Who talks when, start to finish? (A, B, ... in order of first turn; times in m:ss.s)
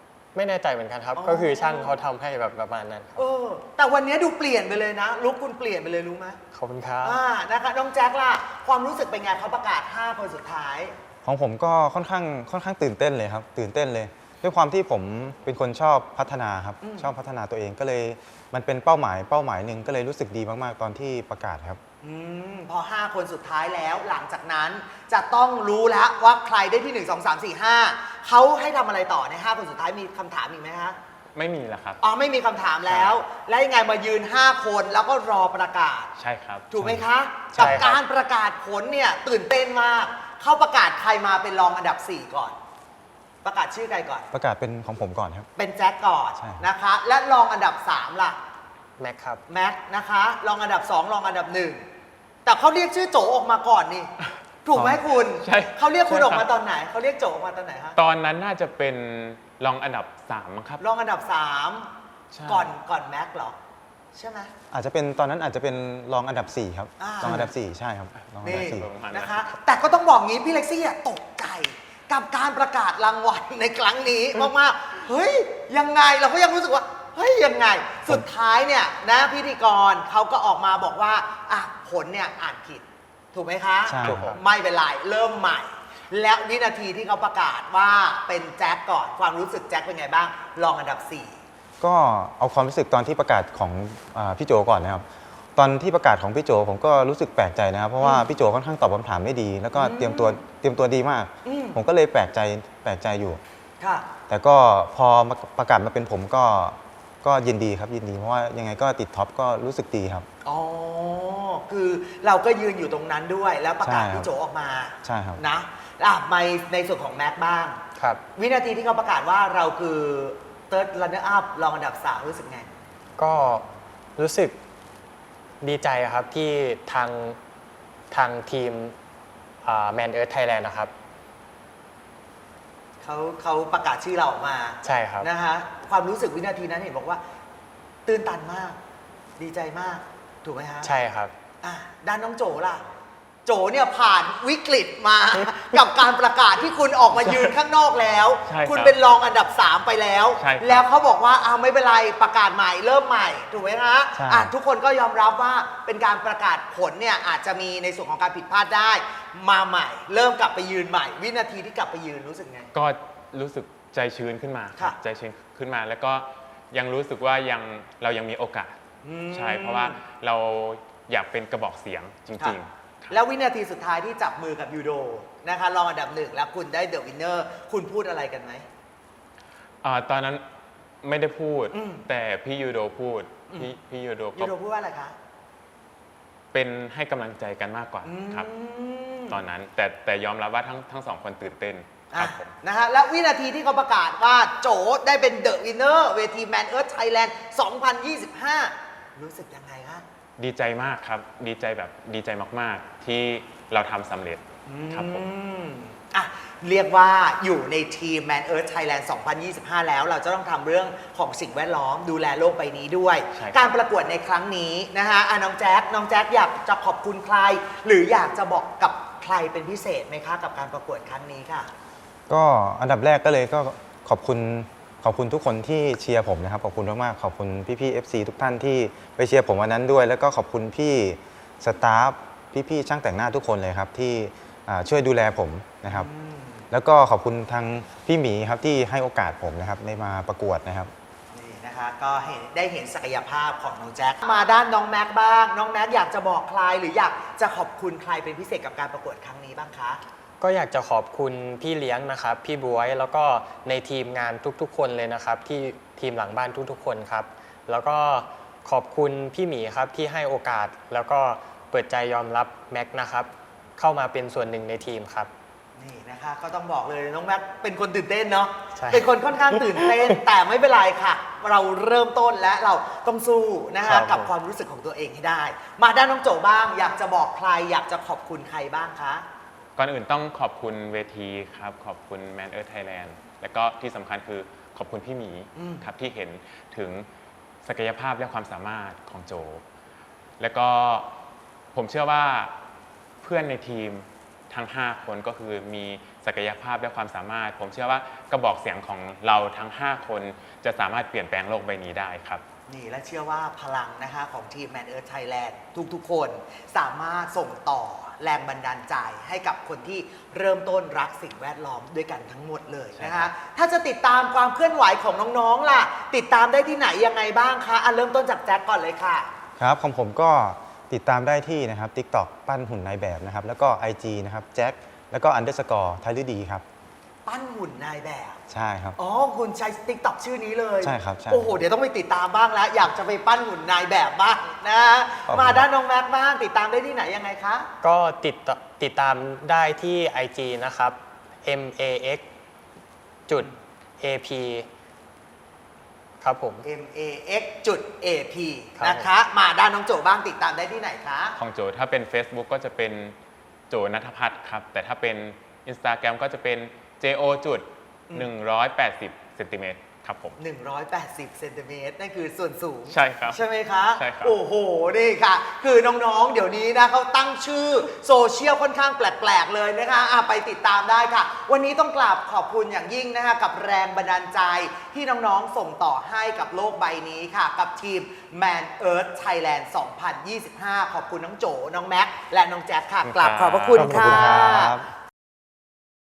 0:00.3-0:03.2 A
0:01.1-0:02.0 B
0:03.2-0:06.4 B
0:06.5-0:07.2 A
0:07.0-0:10.9 B
0:11.2-0:21.8 C
0:16.8-0:17.1 B
0:22.0-0:31.0 B
0:31.3-0:32.0 D
0:32.0-0:36.1 B
0:32.8-0:33.2 D
0:36.2-0:36.7 D
0:36.7-0:42.6 B
0:36.8-0:38.0 C
0:37.6-0:37.9 A
0:43.4-0:44.3 B
0:44.3-0:45.5 C
0:45.6-0:48.4 B
0:46.4-0:46.6 C
0:49.0-0:49.4 A
0:49.5-0:51.8 B
0:52.4-0:54.1 B
0:54.6-0:58.0 B
0:54.7-0:56.5 D
0:58.0-1:00.8 D
1:00.8-1:01.9 B
1:02.3-1:02.7 D
1:02.4-1:03.6 B
1:04.1-1:04.5 B
1:04.7-1:08.9 C
1:07.0-1:07.5 B
1:07.2-1:07.5 D
1:08.4-1:09.5 D
1:08.4-1:31.4 B
1:23.8-1:24.4 C
1:24.0-1:24.4 D
1:31.8-1:35.0 C
1:35.6-1:43.4 C
1:38.0-1:38.3 B
1:39.7-1:40.4 B
1:41.4-1:41.8 B
1:43.8-1:44.1 B
1:44.3-1:50.3 C
1:50.4-1:57.8 B
1:53.8-1:54.3 C
1:55.0-1:55.4 C
1:58.0-1:58.2 A
1:58.3-2:02.7 B
2:03.2-2:04.6 A
2:05.6-2:07.4 A
2:08.1-2:09.0 A
2:09.6-2:10.9 A
2:13.0-2:17.2 B
2:14.8-2:15.3 A
2:18.0-2:18.8 B
2:19.4-2:20.9 B
2:20.8-2:21.3 A
2:21.6-2:22.8 B
2:23.4-2:42.7 B
2:28.4-2:29.0 D
2:30.4-2:30.8 D
2:34.1-2:34.5 C
2:42.7-2:48.8 D
2:49.0-2:50.0 B
2:49.3-2:53.2 D
2:53.1-2:58.6 B
2:59.8-3:00.4 D
3:01.0-3:04.5 D
3:01.7-3:02.1 B
3:03.5-3:03.8 B
3:04.3-3:05.1 B
3:06.5-3:08.5 D
3:08.0-3:09.4 B
3:09.3-3:12.5 D
3:12.1-3:20.0 B
3:20.4-3:25.2 D
3:24.7-3:41.7 B
3:33.3-3:33.8 D
3:42.3-3:56.1 C
3:55.8-3:56.7 B
3:56.7-4:00.9 C
4:01.3-4:10.0 B
4:10.4-4:25.3 A
4:25.8-4:39.2 B
4:28.7-4:29.1 A
4:29.6-4:29.9 A
4:33.8-4:34.3 A
4:39.8-4:47.1 D
4:45.5-4:45.9 B
4:47.6-4:49.6 D
4:50.4-4:51.1 D
4:51.7-4:52.5 D
4:53.2-5:02.4 D
5:02.7-5:19.3 B
5:13.0-5:13.3 D
5:19.6-5:26.6 C
5:27.2-5:28.4 B
5:28.5-5:29.0 C
5:29.0-5:37.7 B
5:30.8-5:31.6 C
5:35.3-5:35.7 C
5:37.8-5:42.2 A
5:43.3-5:44.7 A
5:46.2-5:46.6 A
5:46.6-5:51.4 B
5:48.8-5:49.1 A
5:51.4-5:53.2 D
5:53.7-6:00.4 D
6:00.4-6:24.8 B
6:02.9-6:04.4 D
6:23.0-6:23.9 D
6:23.7-6:24.9 C
6:23.8-6:24.7 A